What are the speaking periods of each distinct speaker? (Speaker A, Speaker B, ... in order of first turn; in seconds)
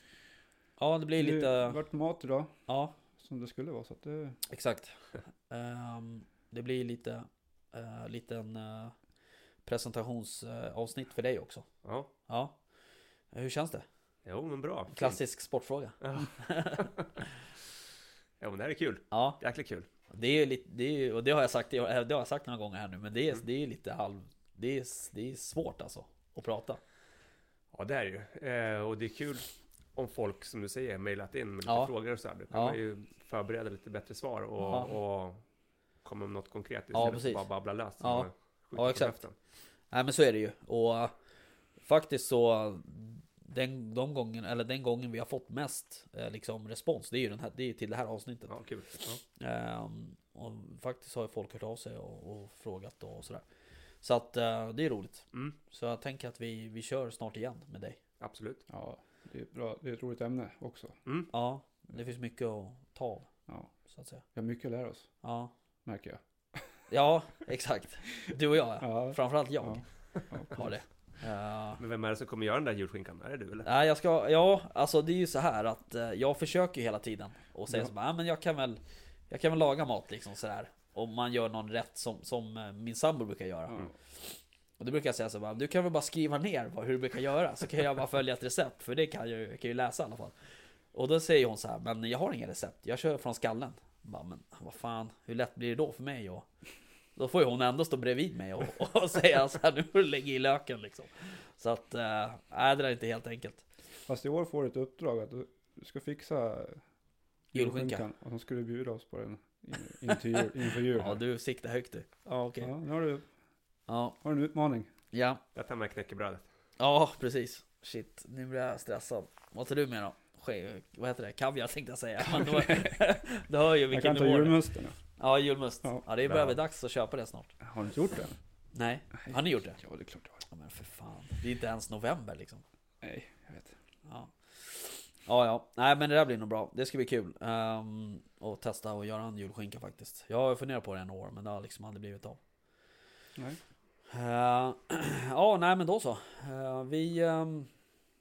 Speaker A: 0.8-1.8, 2.7-2.9, 4.5-8.9, 9.6-11.7, 12.3-12.6, 13.3-13.8, 14.9-16.9, 19.1-19.4, 20.1-26.8, 31.6-31.9, 32.5-32.8, 34.6-34.9, 36.9-37.4, 38.0-39.2, 39.9-41.1, 41.8-48.5, 49.4-53.4, 54.0-58.0, 61.3-63.3, 63.9-64.2, 65.2-65.5, 66.9-69.8, 70.5-71.8, 73.7-83.9, 84.8-90.3, 90.9-96.5, 97.1-103.6, 107.5-108.0, 110.1-112.7, 113.9-114.2, 115.1-115.4, 116.8-124.6, 125.2-127.5, 128.7-129.8, 130.5-132.6, 134.1-142.4, 144.1-147.7
Speaker B: 1.1-2.6, 3.1-4.4, 58.7-61.0, 64.3-65.1, 65.8-66.7, 68.8-70.7, 104.0-106.8, 107.5-111.2, 112.6-113.2, 114.2-114.9, 122.3-123.0, 123.9-125.0, 127.6-128.3, 129.2-130.4, 133.0-133.7
Speaker C: 11.8-12.1, 14.2-15.2, 16.0-17.2, 18.4-19.9, 27.7-35.4, 36.0-39.3, 48.5-49.2, 58.2-58.6, 61.0-61.3, 71.8-73.7, 115.5-116.5, 126.2-126.6